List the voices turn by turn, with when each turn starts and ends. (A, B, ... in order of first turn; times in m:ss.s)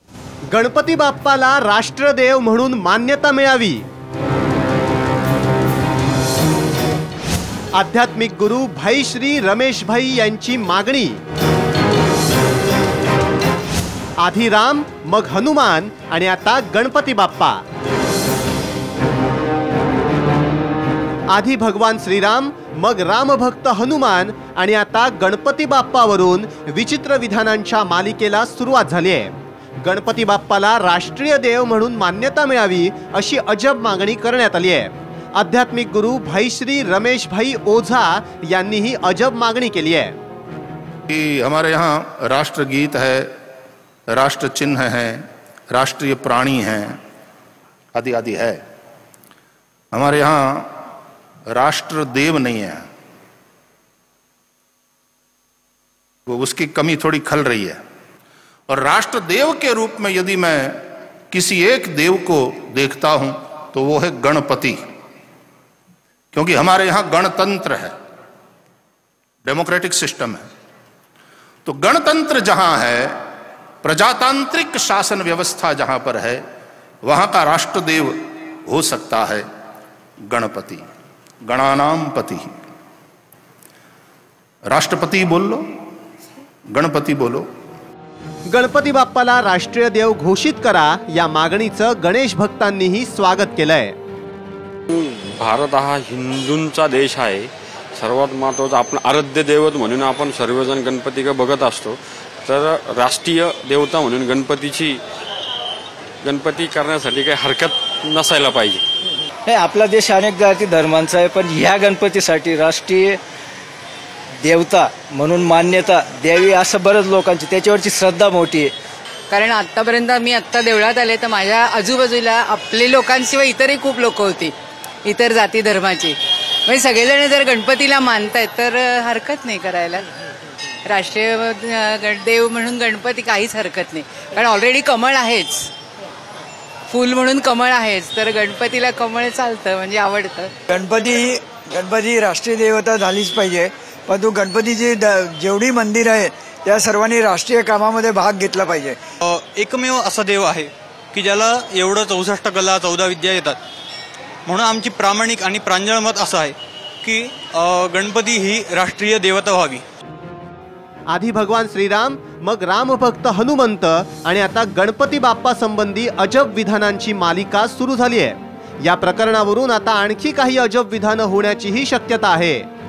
0:00.5-0:03.8 A
0:07.8-0:11.2 A
0:14.2-0:17.6 A
0:21.3-0:40.2 A
0:41.1-0:43.3 B
0:44.1-0:47.0 B
0:48.0-0:48.6 B
0:49.9-0:50.7 B
0:51.5-0:52.9 B
0:56.3-0:57.8 B
0:58.7-1:04.8 B
1:06.3-1:07.9 B
1:09.4-1:10.4 B
1:11.6-1:13.2 B
1:13.8-1:16.4 B
1:17.0-1:18.2 B
1:18.7-1:19.4 B
1:20.3-1:20.8 B
1:21.4-1:22.5 B
1:24.7-1:25.6 B
1:26.7-1:27.5 B
1:28.5-1:34.0 A
1:34.9-1:45.0 C
1:46.2-1:48.8 C
1:49.5-1:53.2 D
1:54.4-1:58.7 D
1:59.3-2:04.5 E
2:05.0-2:10.1 E
2:10.9-2:15.7 E
2:16.9-2:20.5 E
2:20.7-2:29.0 F
2:29.2-2:33.6 G
2:34.5-2:39.8 G
2:41.1-2:52.7 A